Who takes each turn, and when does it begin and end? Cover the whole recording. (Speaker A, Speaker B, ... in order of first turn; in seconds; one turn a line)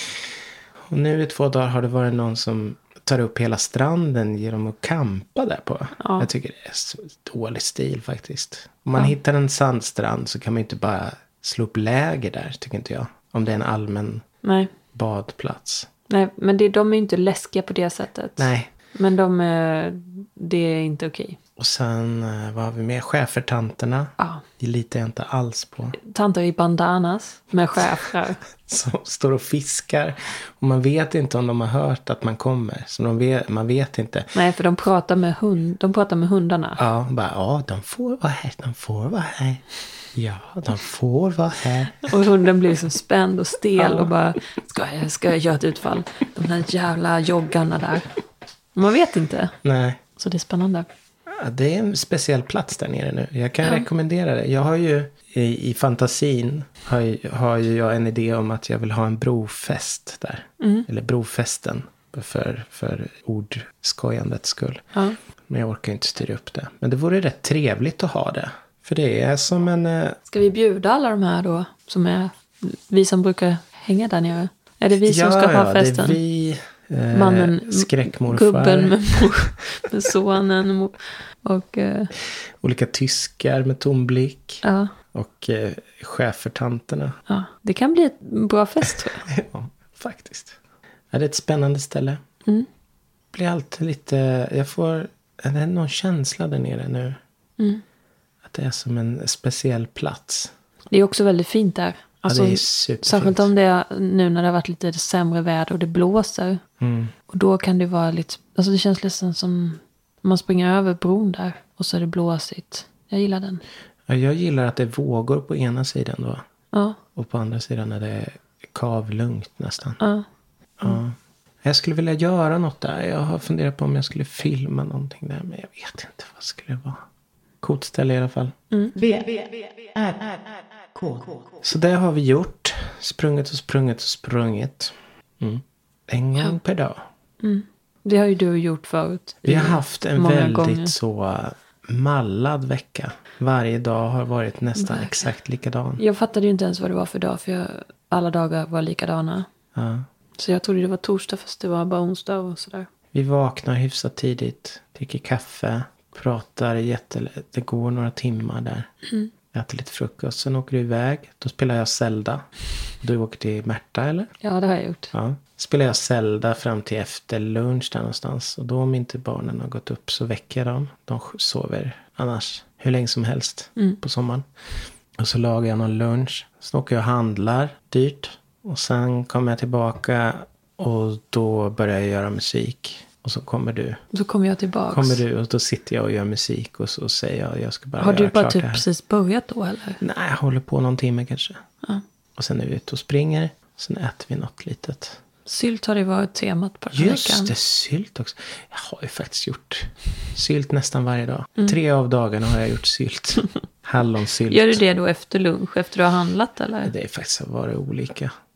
Speaker A: 0.9-14.2
Speaker B: 6.0-6.3
Speaker B: 14.4-14.7
Speaker A: 14.9-15.9
Speaker B: 16.1-21.4
Speaker A: 18.4-18.7
Speaker A: 21.6-26.0
Speaker B: 24.2-24.4
Speaker B: 26.0-28.4
Speaker A: 28.5-34.3
Speaker B: 34.3-36.8
Speaker A: 36.8-42.2
Speaker B: 41.9-48.1
Speaker A: 43.8-44.1
Speaker B: 48.7-49.6
Speaker A: 49.6-50.0
Speaker B: 50.1-50.9
Speaker A: 51.3-64.8
Speaker B: 60.6-60.9
Speaker A: 65.5-70.2
Speaker B: 70.3-76.2
Speaker A: 75.0-79.3
Speaker B: 77.1-82.1
Speaker A: 82.3-87.2
Speaker B: 84.6-84.9
Speaker B: 87.3-89.3
Speaker A: 88.8-90.6
Speaker A: 91.1-92.2
Speaker A: 93.3-97.2
Speaker A: 98.4-100.5
Speaker B: 100.9-106.6
Speaker A: 102.2-103.5
Speaker A: 106.8-107.1
Speaker B: 107.3-113.6
Speaker A: 114.1-116.4
Speaker B: 116.7-117.0
Speaker A: 117.1-120.0
Speaker B: 120.0-120.2
Speaker A: 120.8-127.0
Speaker A: 127.6-128.5
Speaker C: 128.9-131.6
Speaker A: 131.6-137.0
Speaker B: 137.4-140.9
Speaker A: 139.4-146.0
Speaker B: 144.8-145.2
Speaker B: 146.0-149.5
Speaker A: 149.7-150.1
Speaker B: 150.4-152.9
Speaker A: 153.1-158.9
Speaker A: 159.5-162.5
Speaker A: 163.0-164.3
Speaker B: 164.4-165.1
Speaker A: 165.1-184.0
Speaker B: 184.1-185.2
Speaker A: 184.9-188.8
Speaker B: 188.0-190.0
Speaker A: 190.0-191.6
Speaker A: 192.3-195.2
Speaker B: 195.4-197.5
Speaker A: 196.9-204.8
Speaker B: 204.5-206.9
Speaker A: 206.8-208.3